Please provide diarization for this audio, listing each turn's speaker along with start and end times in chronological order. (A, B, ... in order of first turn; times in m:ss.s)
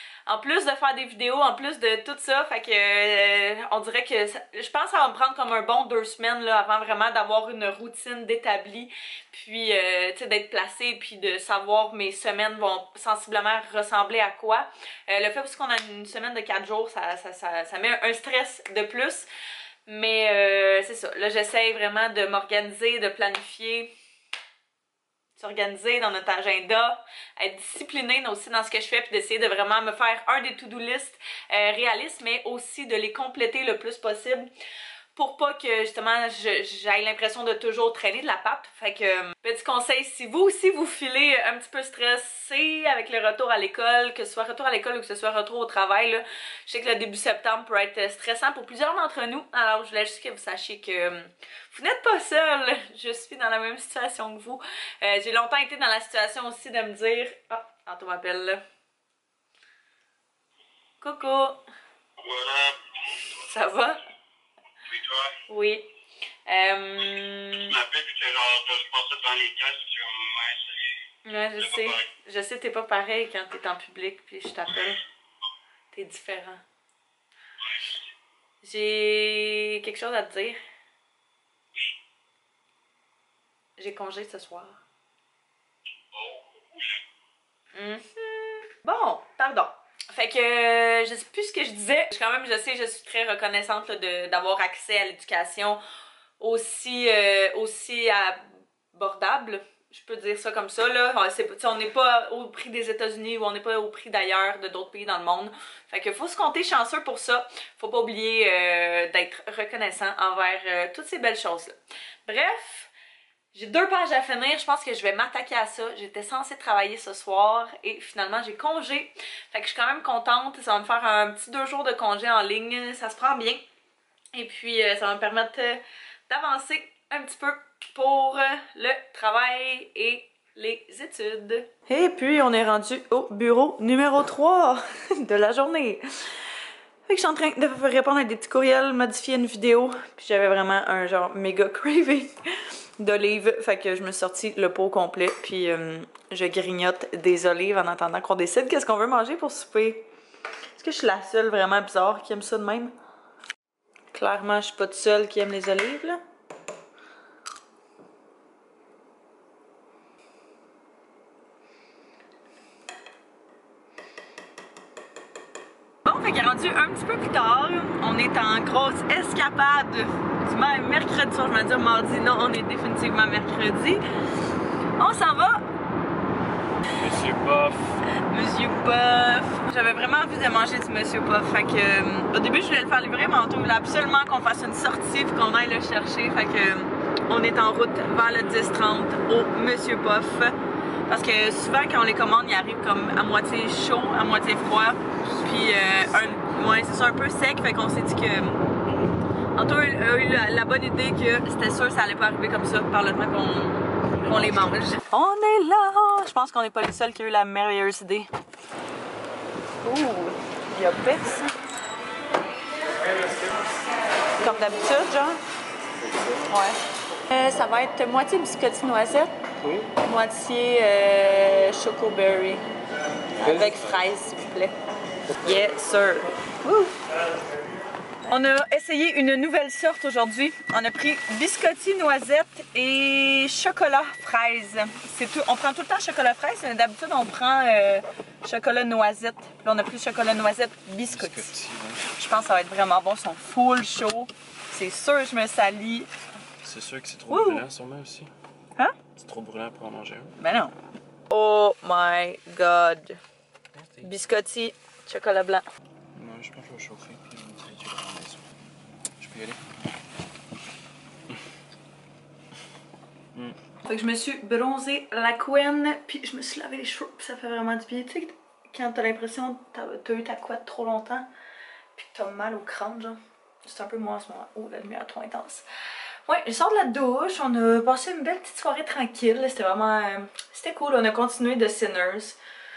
0:00.2-0:19.3 A
0:19.8-0:23.9 A
0:25.3-0:34.5 A
0:35.1-0:58.6 A
1:01.0-1:01.6 A
1:02.3-1:02.7 B
1:03.1-1:04.0 A
1:05.5-1:05.9 A
1:06.4-1:07.9 A
1:07.9-1:10.9 B
1:11.2-1:15.0 A
1:15.9-1:16.6 A
1:18.6-1:20.6 A
1:23.8-1:24.8 A
1:27.7-1:35.8 A
1:36.4-1:52.9 A
1:53.5-2:03.6 A
2:04.3-2:16.4 A
2:17.0-2:22.4 A
2:23.0-2:30.0 A
2:30.7-2:32.9 A
2:34.1-2:36.2 A
2:46.0-2:54.0 A
2:55.0-2:55.6 A
2:57.0-2:58.0 C
2:58.1-3:10.6 A
3:11.1-3:18.7 A
3:19.5-3:28.3 A
3:29.8-3:31.6 A
3:34.4-3:35.4 A
3:36.4-3:39.3 A
3:39.6-3:39.9 C
3:39.8-3:42.6 A
3:43.4-3:44.7 A
3:45.4-3:46.9 A
3:48.3-4:01.5 A
4:01.1-4:02.1 C
4:02.1-4:06.1 A
4:06.6-4:08.3 C
4:07.3-4:07.6 A
4:09.1-4:10.3 C
4:10.4-4:10.7 A
4:11.3-4:13.2 A
4:14.0-4:15.6 A
4:16.1-4:18.4 C
4:19.2-4:19.6 C
4:23.8-4:31.3 A
4:32.0-4:35.6 A
4:36.2-4:42.4 A